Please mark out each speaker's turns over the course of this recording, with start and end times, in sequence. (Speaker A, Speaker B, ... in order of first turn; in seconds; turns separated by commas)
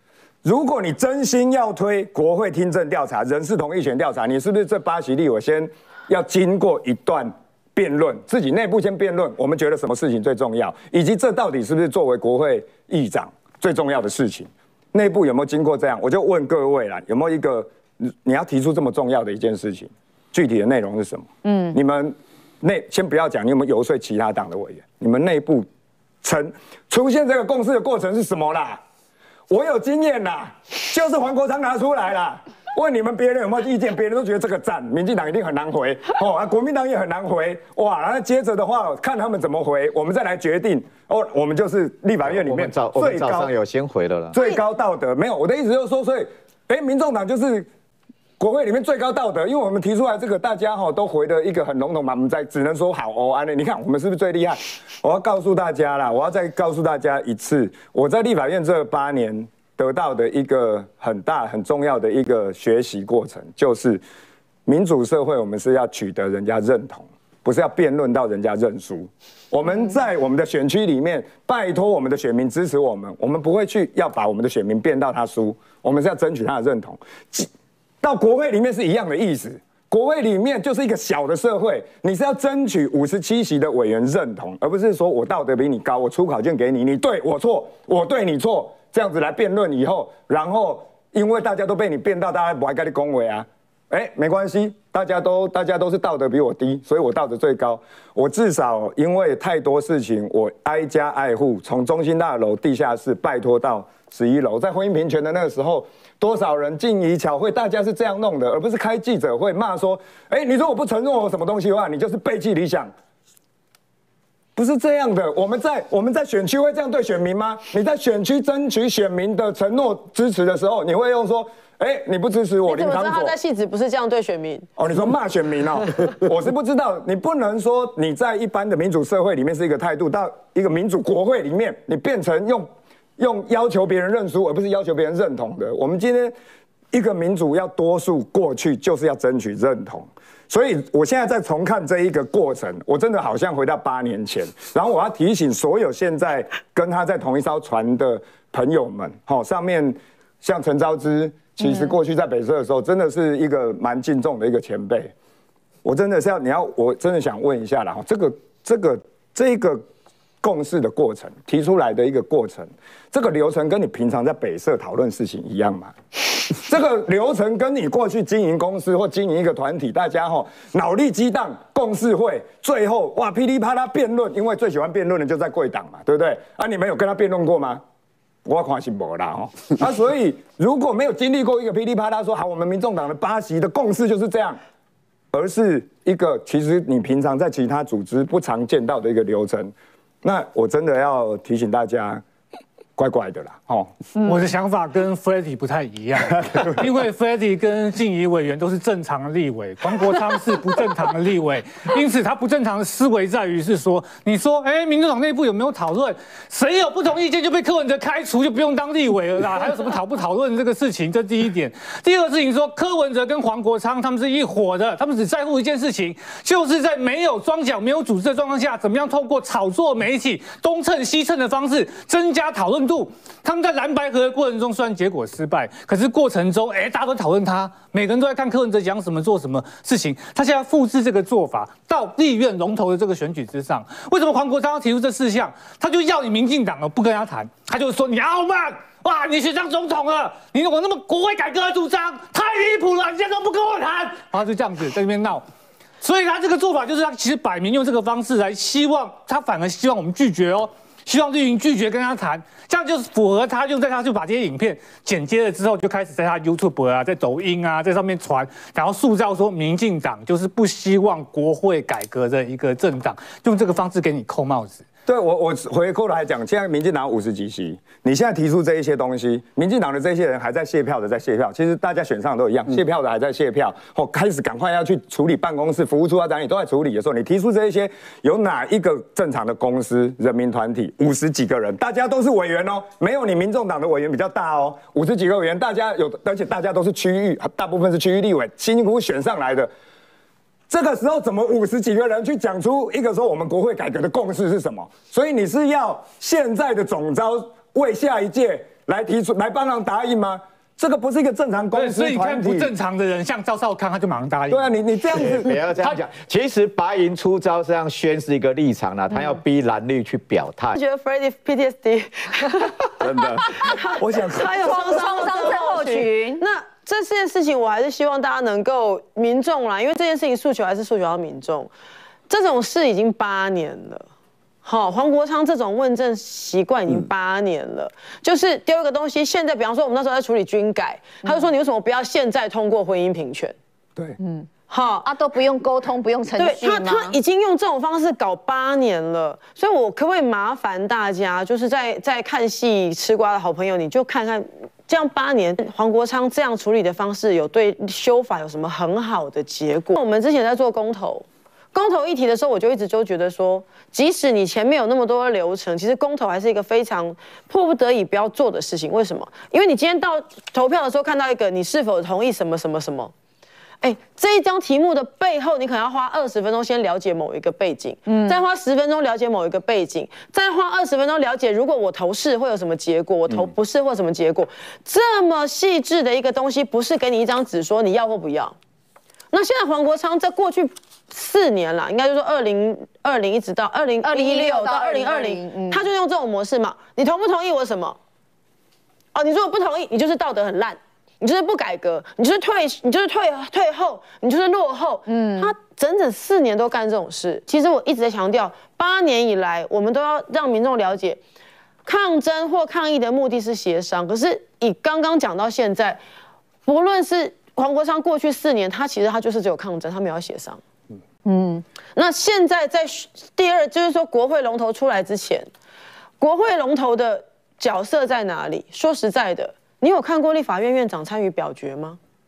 Speaker A: 0.4-25.7, Speaker B: 21.4-21.8, Speaker A: 26.2-28.8, Speaker A: 29.5-43.5, Speaker C: 42.2-44.4, Speaker A: 44.3-47.7, Speaker D: 44.3-44.6, Speaker A: 48.4-64.0, Speaker A: 64.7-77.5, Speaker A: 78.0-112.9, Speaker A: 114.5-123.3, Speaker D: 122.6-124.7, Speaker A: 124.8-136.3, Speaker A: 136.9-155.1, Speaker B: 151.6-152.0, Speaker A: 155.8-159.8, Speaker A: 160.4-165.9, Speaker A: 166.5-177.8, Speaker A: 178.4-184.6, Speaker A: 185.3-192.2, Speaker A: 193.0-193.9, Speaker E: 194.2-245.4, Speaker E: 246.0-264.8, Speaker A: 265.1-289.7, Speaker A: 290.7-302.7, Speaker E: 301.7-306.0, Speaker A: 304.5-305.5, Speaker C: 305.2-310.7, Speaker D: 310.7-321.7, Speaker A: 313.0-315.3, Speaker B: 314.6-316.4, Speaker D: 322.3-324.1, Speaker D: 324.6-333.5, Speaker B: 334.2-334.5, Speaker D: 334.7-335.1, Speaker B: 335.0-337.1, Speaker D: 336.4-363.1, Speaker D: 363.8-378.5, Speaker B: 368.1-368.4, Speaker D: 379.3-388.0, Speaker B: 384.0-385.8, Speaker D: 389.1-401.2, Speaker B: 395.1-395.5, Speaker D: 401.8-406.0, Speaker D: 406.6-410.6, Speaker B: 411.2-411.6, Speaker D: 411.9-415.5, Speaker D: 416.2-422.0